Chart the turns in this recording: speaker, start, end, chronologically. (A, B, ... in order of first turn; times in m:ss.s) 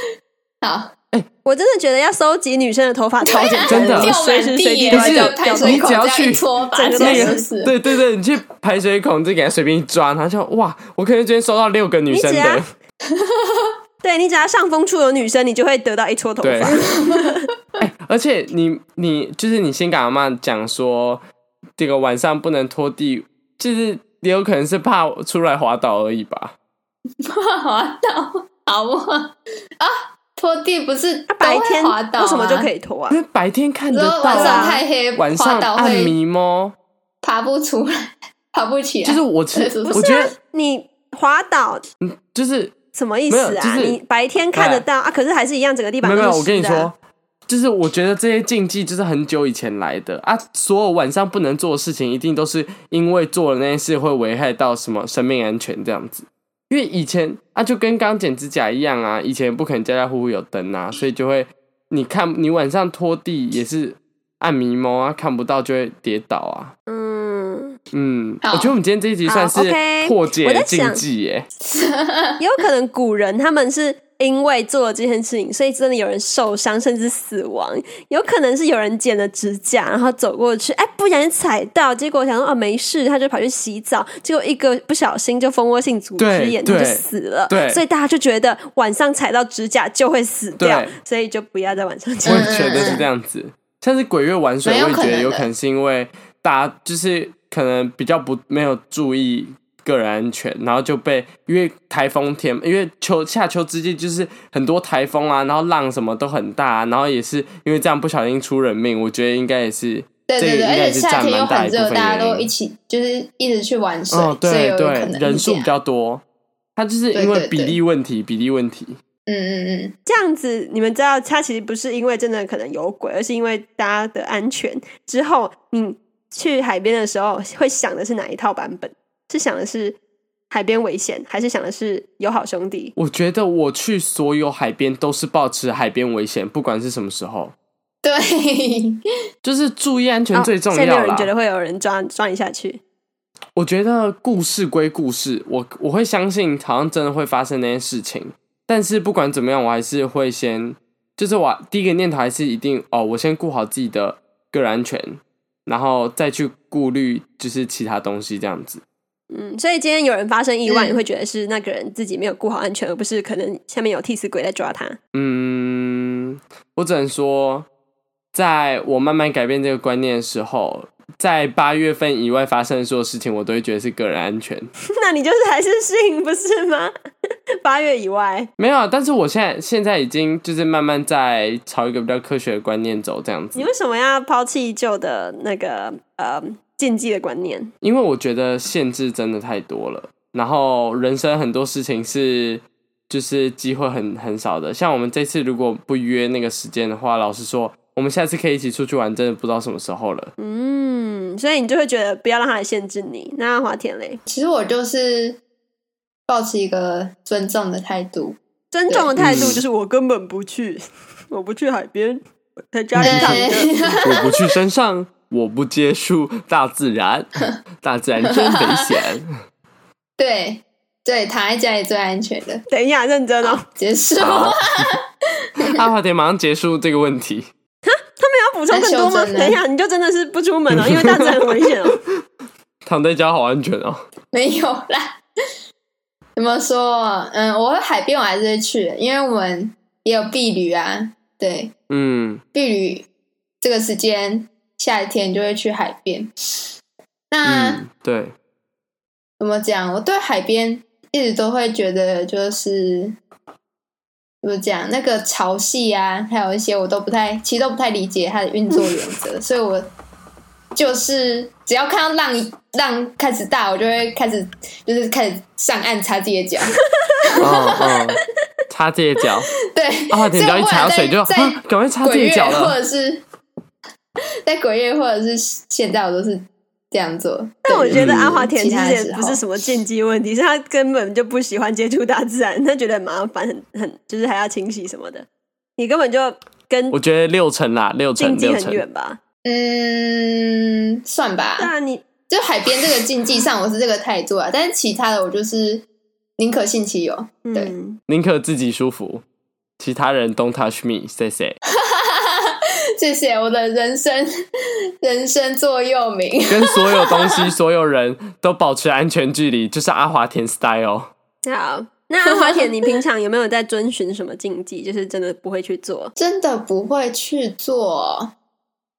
0:00.6-0:00.9 A
0:01.4-0:06.0 B
0:03.2-0:07.8 A
0:03.6-0:04.1 C
0:04.9-0:06.4 C
0:06.7-0:07.4 B
0:07.0-0:12.6 C
0:12.1-0:12.6 B
0:13.1-0:13.7 A
0:14.0-0:17.5 B
0:16.4-0:16.8 C
0:16.9-0:17.2 A
0:17.8-0:21.2 C
0:21.8-0:26.5 C
0:27.2-0:32.7 A
0:31.3-0:33.2 B
0:33.1-0:36.8 C
0:33.9-0:36.1 A
0:34.3-0:34.8 B
0:37.2-0:40.3 A
0:39.0-0:40.3 C
0:39.8-0:41.8 B
0:42.0-0:42.7 C
0:42.9-0:46.9 B
0:43.3-0:44.0 C
0:44.5-0:44.8 C
0:46.0-0:47.0 C
0:47.5-1:06.7 C
1:06.9-1:07.8 B
1:07.9-1:11.5 C
1:08.4-1:08.7 A
1:09.2-1:11.0 B
1:11.6-1:12.4 A
1:12.4-1:32.9 B
1:26.2-1:27.8 C
1:30.6-1:30.9 C
1:32.2-1:33.0 A
1:32.2-1:52.5 C
1:34.6-1:35.5 A
1:50.3-1:55.7 A
1:54.1-1:56.2 C
1:56.8-1:59.0 C
1:57.1-1:57.8 A
1:59.3-1:59.9 A
2:00.0-2:10.0 B
2:10.5-2:12.9 B
2:13.0-2:17.5 C
2:18.0-2:19.0 A
2:19.4-2:21.3 C
2:20.3-2:22.8 B
2:23.6-2:38.8 C
2:39.3-2:45.0 B
2:40.7-2:41.0 A
2:45.1-2:47.7 C
2:48.3-2:54.7 C
2:55.0-2:56.9 B
2:57.6-2:58.5 B
2:58.6-3:03.7 C
3:03.5-3:07.7 B
3:07.8-3:20.3 C
3:20.4-3:24.2 B
3:24.3-3:25.4 A
3:26.3-3:29.6 A
3:28.7-3:33.7 B
3:29.2-3:29.6 C
3:32.9-3:37.3 C
3:33.0-3:34.3 A
3:37.8-3:39.3 C
3:38.2-3:38.8 A
3:40.2-3:42.6 A
3:42.7-3:43.6 B
3:43.6-3:45.0 A
3:44.2-3:44.9 C
3:45.7-3:47.5 C
3:47.8-3:52.0 B
3:48.7-3:49.6 A
3:50.7-3:52.2 C
3:52.8-3:54.0 C
3:54.3-3:55.2 A
3:56.4-4:01.7 A
4:01.9-4:02.4 C
4:02.5-4:03.0 A
4:03.6-4:06.3 A
4:07.3-4:07.8 A
4:07.4-4:08.3 C
4:09.4-4:13.2 A
4:14.4-4:19.9 A
4:20.7-4:28.0 A
4:27.4-4:29.5 C
4:29.7-4:33.2 A
4:30.1-4:32.8 C
4:34.4-4:39.4 A
4:37.6-4:45.2 B
4:37.9-4:38.4 C
4:45.8-4:47.0 B
4:46.9-4:48.8 C
4:48.2-4:49.2 B
4:49.4-4:51.7 A
4:51.6-4:52.0 B
4:52.3-4:55.8 A
4:56.4-4:57.7 A
4:57.4-4:58.0 B
4:58.1-4:59.2 C
4:59.8-5:01.5 C
5:01.7-5:04.3 A
5:05.0-5:07.5 A
5:06.5-5:11.1 C
5:11.4-5:16.1 B
5:12.3-5:12.7 A
5:16.2-5:18.3 A